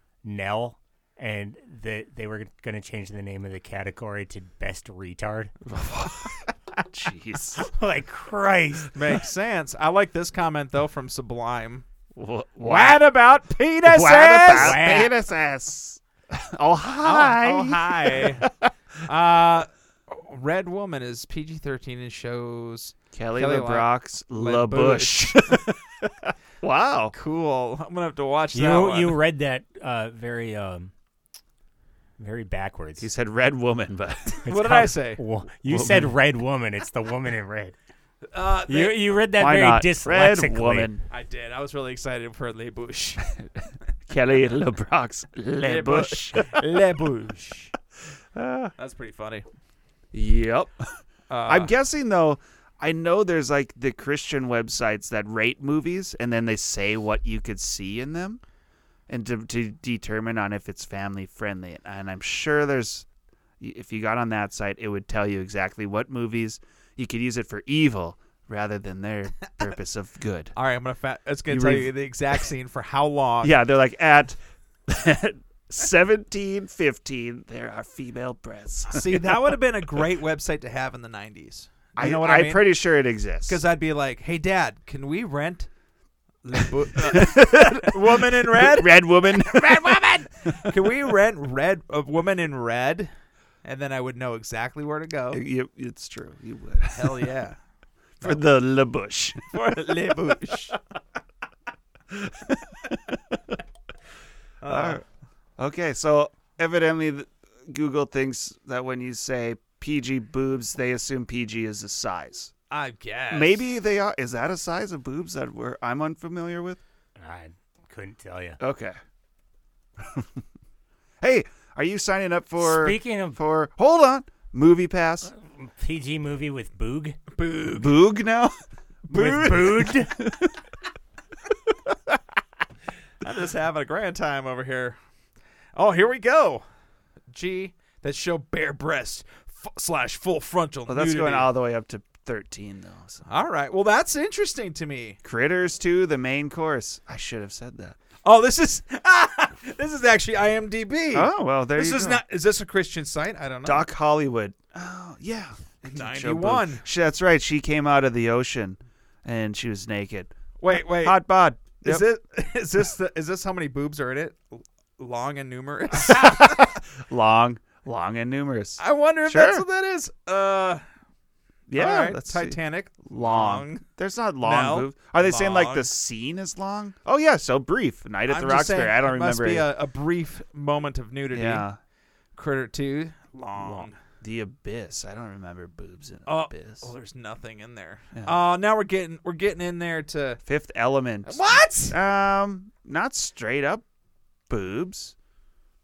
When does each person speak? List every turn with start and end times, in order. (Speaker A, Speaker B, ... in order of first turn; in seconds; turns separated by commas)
Speaker A: 0.2-5.5, Speaker B: 5.7-7.7, Speaker A: 7.6-8.9, Speaker C: 8.9-11.8, Speaker B: 12.2-13.1, Speaker C: 12.6-15.1, Speaker B: 13.8-18.7, Speaker A: 14.6-15.0, Speaker C: 17.0-18.5, Speaker C: 19.1-25.7, Speaker B: 23.1-27.1, Speaker C: 27.1-29.2, Speaker A: 28.5-30.9, Speaker A: 32.2-33.1, Speaker B: 33.0-34.4, Speaker C: 34.4-35.2, Speaker A: 34.5-37.7, Speaker B: 35.7-36.1, Speaker C: 38.2-39.1, Speaker A: 38.7-40.9, Speaker B: 39.4-41.0, Speaker C: 41.1-43.2, Speaker B: 44.1-46.6, Speaker C: 45.6-47.7, Speaker B: 48.3-48.7, Speaker C: 48.8-49.5, Speaker B: 50.1-50.8, Speaker C: 51.3-51.7, Speaker B: 51.5-58.4, Speaker B: 59.1-63.0, Speaker B: 63.6-70.5, Speaker C: 70.5-73.6, Speaker B: 71.5-71.9, Speaker B: 73.4-79.4, Speaker C: 78.9-82.8, Speaker B: 82.0-83.6, Speaker C: 83.5-85.7, Speaker C: 86.4-93.1, Speaker B: 87.0-90.7, Speaker C: 93.6-95.4, Speaker B: 95.3-97.3, Speaker C: 96.8-97.6, Speaker B: 98.2-99.6, Speaker C: 99.5-100.8, Speaker C: 104.6-105.0, Speaker B: 104.6-105.0, Speaker B: 105.6-112.5, Speaker C: 112.7-113.6, Speaker B: 113.3-116.8, Speaker A: 117.2-118.6, Speaker B: 118.6-119.0, Speaker B: 121.2-125.3, Speaker A: 122.6-123.4, Speaker A: 125.3-127.2, Speaker C: 127.3-128.1, Speaker B: 127.7-128.5, Speaker C: 129.1-129.9, Speaker A: 129.1-130.1, Speaker B: 129.3-130.5, Speaker C: 133.2-135.0, Speaker C: 135.7-136.6, Speaker C: 137.3-141.5, Speaker B: 140.9-143.2, Speaker C: 143.3-145.2, Speaker B: 145.2-148.0, Speaker C: 148.2-153.9, Speaker B: 151.1-152.2, Speaker B: 153.6-162.1, Speaker C: 155.8-156.8, Speaker C: 160.6-166.7, Speaker B: 165.9-169.6, Speaker C: 168.8-170.8, Speaker B: 171.7-179.7, Speaker C: 171.7-173.8, Speaker C: 174.4-175.9, Speaker C: 178.3-181.7, Speaker B: 181.3-181.8, Speaker C: 182.3-183.9, Speaker B: 183.6-186.9, Speaker C: 186.2-190.4, Speaker B: 190.4-193.8, Speaker C: 191.2-192.0, Speaker B: 194.5-195.1